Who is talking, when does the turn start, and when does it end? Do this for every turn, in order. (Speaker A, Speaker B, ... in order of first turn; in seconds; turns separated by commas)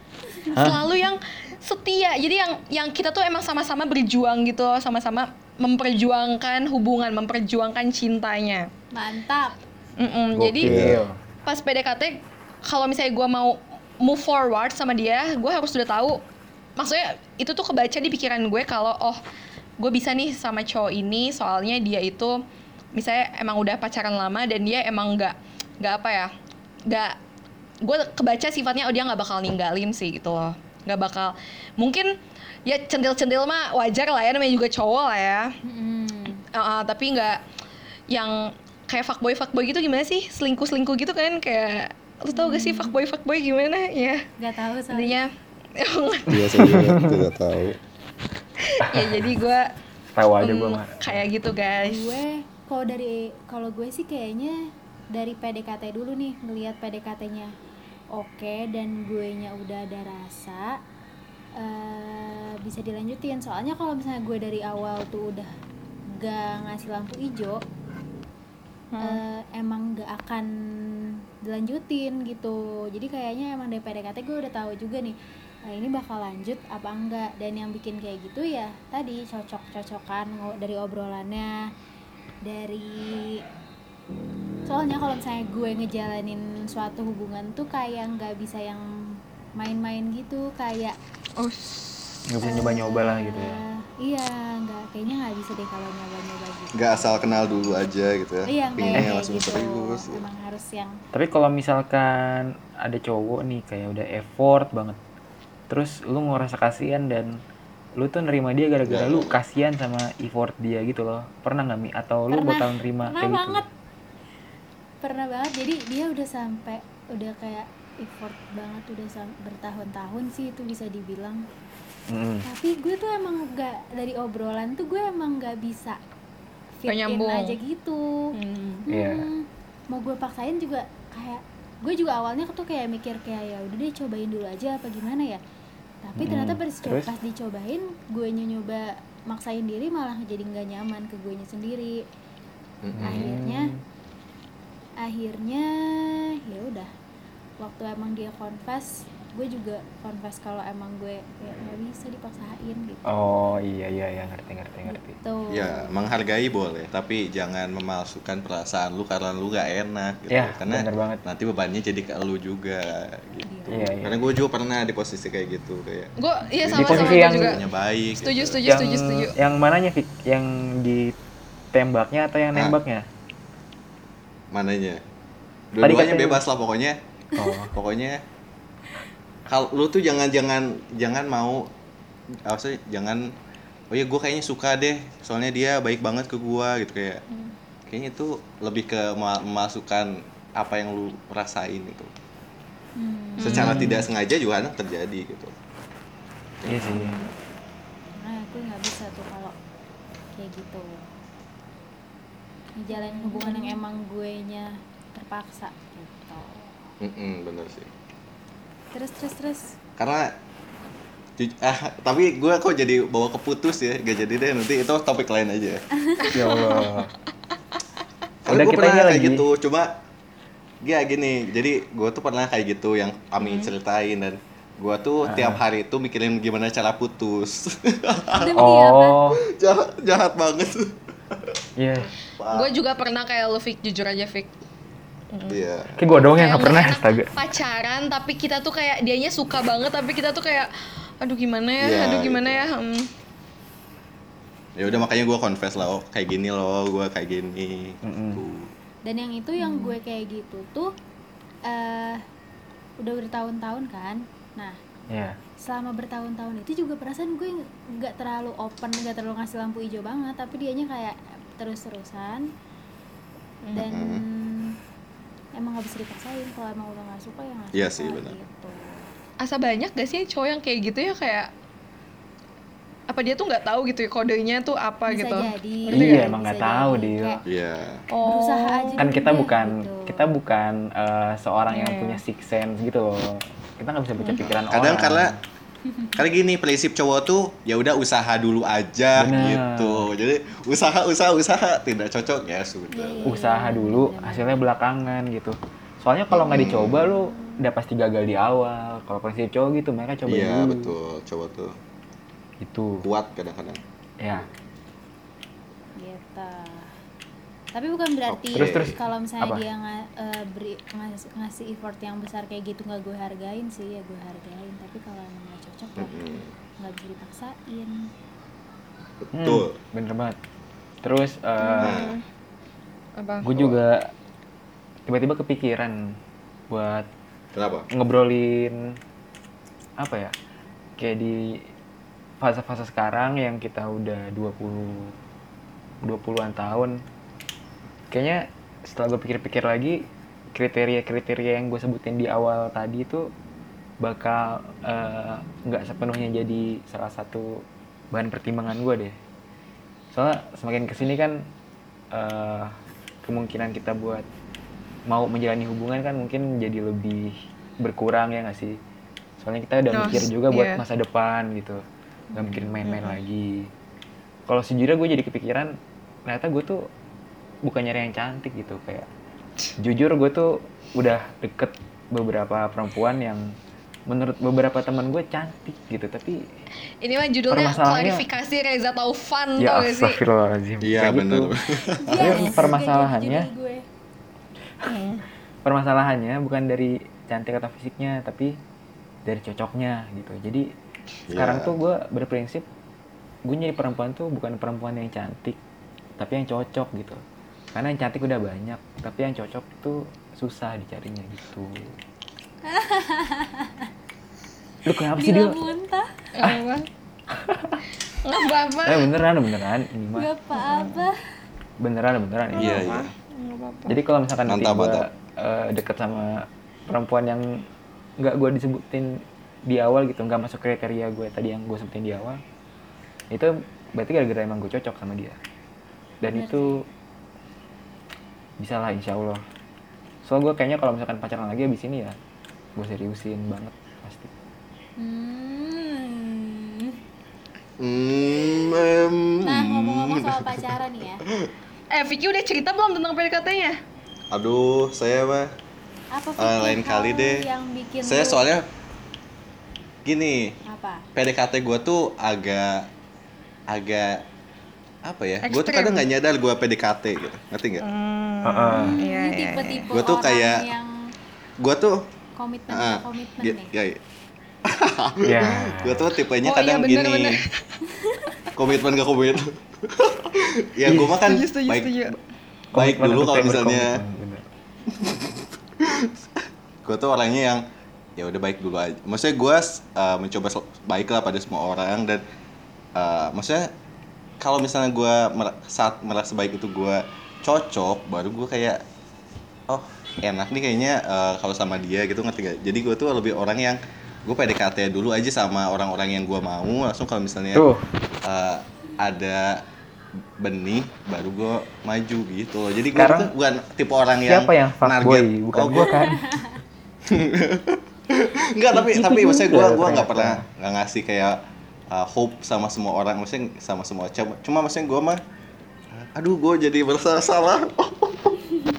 Speaker A: 0.5-8.7, Speaker B: 0.5-0.8, Speaker C: 8.9-9.6, Speaker A: 10.0-10.9, Speaker D: 10.3-11.2, Speaker B: 10.6-11.0, Speaker A: 11.4-16.2, Speaker A: 16.8-19.2, Speaker A: 19.8-22.4, Speaker A: 22.9-26.3, Speaker A: 26.9-27.1, Speaker A: 27.8-32.1, Speaker A: 32.7-35.5, Speaker C: 35.6-36.4, Speaker A: 36.5-37.4, Speaker A: 38.1-44.2, Speaker C: 42.3-43.0, Speaker C: 44.4-45.2, Speaker A: 44.9-46.3, Speaker B: 46.3-47.8, Speaker D: 46.6-47.2, Speaker A: 48.6-49.6, Speaker D: 48.8-49.3, Speaker D: 50.1-51.2, Speaker A: 50.4-52.2, Speaker C: 51.9-54.6, Speaker C: 55.1-57.5, Speaker C: 58.1-60.7, Speaker C: 61.6-65.5, Speaker C: 66.2-67.6, Speaker A: 68.9-69.2, Speaker C: 69.0-70.5, Speaker C: 71.5-75.2, Speaker C: 75.7-81.6, Speaker C: 82.5-83.4, Speaker C: 84.7-88.8, Speaker C: 89.6-91.0, Speaker A: 91.4-92.1, Speaker D: 92.3-93.6, Speaker C: 92.4-97.9, Speaker B: 96.8-100.2, Speaker C: 98.5-101.0, Speaker D: 101.1-105.0, Speaker D: 105.7-107.4, Speaker D: 108.0-113.6, Speaker B: 108.9-109.4, Speaker C: 112.3-113.7, Speaker C: 115.0-121.5, Speaker D: 122.1-122.5, Speaker C: 122.5-126.0, Speaker C: 126.8-128.3, Speaker A: 126.9-127.6, Speaker A: 128.3-128.8, Speaker C: 128.9-135.4, Speaker D: 128.9-129.3, Speaker C: 136.0-142.0, Speaker D: 136.2-137.1, Speaker B: 142.8-143.3, Speaker D: 142.9-143.8, Speaker C: 143.0-143.7, Speaker C: 145.0-146.9, Speaker C: 147.6-153.1, Speaker D: 153.1-155.2, Speaker C: 154.9-155.9, Speaker B: 155.5-168.6, Speaker D: 160.3-161.2, Speaker C: 163.4-164.0, Speaker D: 163.7-164.2, Speaker A: 166.2-167.6, Speaker D: 166.8-167.6, Speaker A: 168.2-169.3, Speaker D: 168.7-171.1, Speaker D: 171.7-173.1, Speaker B: 174.5-175.0, Speaker B: 175.7-177.0, Speaker D: 175.8-176.4, Speaker D: 177.4-177.7, Speaker B: 177.7-178.2, Speaker B: 179.5-181.7, Speaker B: 182.5-183.3, Speaker B: 183.9-187.2, Speaker B: 187.9-192.1, Speaker C: 193.0-193.7, Speaker A: 193.4-193.7, Speaker B: 193.4-195.5, Speaker D: 193.5-194.1, Speaker B: 196.6-196.9, Speaker D: 196.7-197.2, Speaker C: 196.8-197.3, Speaker C: 198.2-199.6, Speaker C: 200.3-201.1, Speaker C: 202.8-206.7, Speaker A: 202.9-203.8, Speaker B: 207.0-207.9, Speaker C: 208.9-209.7, Speaker B: 210.0-210.3, Speaker B: 211.4-215.8, Speaker A: 216.2-216.9, Speaker D: 216.3-217.1, Speaker B: 218.4-219.9, Speaker D: 218.5-219.4, Speaker B: 220.8-228.7, Speaker A: 223.4-223.7, Speaker D: 225.3-225.6, Speaker C: 228.3-229.2, Speaker D: 228.6-229.4, Speaker B: 229.5-231.6, Speaker D: 231.8-232.1, Speaker B: 232.4-232.7, Speaker A: 232.5-234.5, Speaker A: 235.3-235.6, Speaker B: 235.5-236.0, Speaker D: 236.0-237.3, Speaker A: 236.1-240.7, Speaker A: 241.2-243.1, Speaker B: 241.8-242.7, Speaker B: 244.8-248.7, Speaker D: 248.0-248.4, Speaker C: 249.1-250.9, Speaker A: 249.6-250.0, Speaker C: 251.7-252.2, Speaker C: 253.0-254.8, Speaker D: 255.1-255.4, Speaker C: 255.6-262.5, Speaker A: 263.6-263.9, Speaker C: 263.8-264.8, Speaker B: 263.8-264.2, Speaker C: 265.6-269.1, Speaker B: 267.7-268.4, Speaker A: 269.4-271.5, Speaker A: 273.1-276.3, Speaker C: 275.1-277.4, Speaker D: 275.9-277.4, Speaker B: 277.5-278.0, Speaker A: 278.1-279.2, Speaker C: 278.2-280.3, Speaker D: 279.0-285.4, Speaker A: 281.7-282.2, Speaker B: 284.4-285.3, Speaker C: 285.9-286.1, Speaker B: 286.2-293.4, Speaker D: 289.2-290.1, Speaker C: 292.9-294.6, Speaker D: 293.3-300.9, Speaker B: 296.3-297.1, Speaker B: 300.3-301.8, Speaker D: 302.6-303.0, Speaker B: 303.0-303.8, Speaker D: 304.2-304.5, Speaker C: 306.0-306.9, Speaker C: 307.7-316.2, Speaker B: 308.3-308.9, Speaker D: 308.5-309.6, Speaker B: 316.0-316.5, Speaker C: 316.8-318.1, Speaker B: 319.2-319.8, Speaker D: 319.3-320.4, Speaker D: 321.0-322.0, Speaker A: 321.6-322.2, Speaker B: 321.8-322.1, Speaker A: 323.2-323.4, Speaker D: 323.4-324.1, Speaker B: 323.5-323.8, Speaker D: 325.1-326.1, Speaker D: 326.7-327.1, Speaker B: 327.5-327.9, Speaker D: 327.9-328.8, Speaker D: 330.0-330.3, Speaker D: 331.0-331.5, Speaker D: 332.4-335.1, Speaker D: 336.1-337.0, Speaker D: 338.1-340.0, Speaker D: 340.6-343.3, Speaker D: 344.0-349.2, Speaker D: 350.1-351.5, Speaker D: 352.1-354.2, Speaker D: 355.1-358.8, Speaker D: 359.4-361.8, Speaker A: 359.9-360.8, Speaker C: 362.3-362.8, Speaker D: 362.4-363.7, Speaker A: 362.9-363.2, Speaker D: 364.5-365.8, Speaker D: 366.3-366.9, Speaker D: 367.6-369.1, Speaker D: 369.8-373.5, Speaker D: 374.1-376.4, Speaker A: 377.0-380.2, Speaker D: 377.5-378.2, Speaker D: 379.6-381.5, Speaker B: 380.8-382.5, Speaker C: 382.0-383.9, Speaker D: 382.2-383.5, Speaker A: 384.9-385.2, Speaker D: 385.6-388.6, Speaker D: 389.3-390.7, Speaker B: 391.3-391.8, Speaker D: 391.3-392.7, Speaker D: 393.4-395.6, Speaker D: 396.2-397.2, Speaker D: 397.7-402.0, Speaker C: 402.6-403.9, Speaker D: 404.9-405.6, Speaker C: 405.2-406.1, Speaker A: 406.3-406.9, Speaker D: 407.3-407.8, Speaker A: 408.2-409.1, Speaker D: 408.9-410.3, Speaker C: 410.1-411.2, Speaker A: 410.6-411.0, Speaker D: 411.8-412.9, Speaker A: 412.5-414.0, Speaker B: 412.6-413.1, Speaker D: 413.9-417.5, Speaker B: 414.5-415.1, Speaker D: 418.2-419.1, Speaker D: 419.7-422.4, Speaker D: 423.3-425.4, Speaker D: 426.2-426.8, Speaker C: 426.3-426.8, Speaker D: 428.6-429.4, Speaker D: 430.2-432.2, Speaker D: 432.8-434.3, Speaker C: 435.0-437.0, Speaker B: 437.8-440.7, Speaker C: 439.4-441.2, Speaker A: 441.9-443.8, Speaker B: 444.3-445.5, Speaker C: 446.1-448.4, Speaker B: 446.4-447.4, Speaker B: 448.0-448.7, Speaker B: 450.1-450.6, Speaker C: 450.7-451.1, Speaker B: 451.1-452.9, Speaker B: 453.7-454.2, Speaker B: 455.1-457.9, Speaker A: 455.4-456.1, Speaker A: 457.8-459.9, Speaker D: 458.4-459.0, Speaker C: 458.7-460.9, Speaker B: 459.9-460.7, Speaker B: 461.6-462.0, Speaker C: 462.4-463.7, Speaker B: 462.7-464.0, Speaker B: 464.6-467.4, Speaker D: 465.2-466.1, Speaker A: 466.4-467.8, Speaker B: 468.6-472.1, Speaker D: 470.9-471.1, Speaker A: 471.1-472.2, Speaker D: 472.7-474.4, Speaker B: 472.8-474.0, Speaker B: 474.9-477.6, Speaker B: 478.2-482.2, Speaker B: 483.0-483.7, Speaker B: 484.4-488.8, Speaker B: 489.7-497.7, Speaker D: 497.5-497.8, Speaker B: 498.2-499.6, Speaker B: 500.4-506.1, Speaker D: 502.9-503.3, Speaker D: 504.3-506.3, Speaker C: 506.0-506.5, Speaker B: 507.1-515.2, Speaker D: 508.7-510.5, Speaker B: 516.0-518.4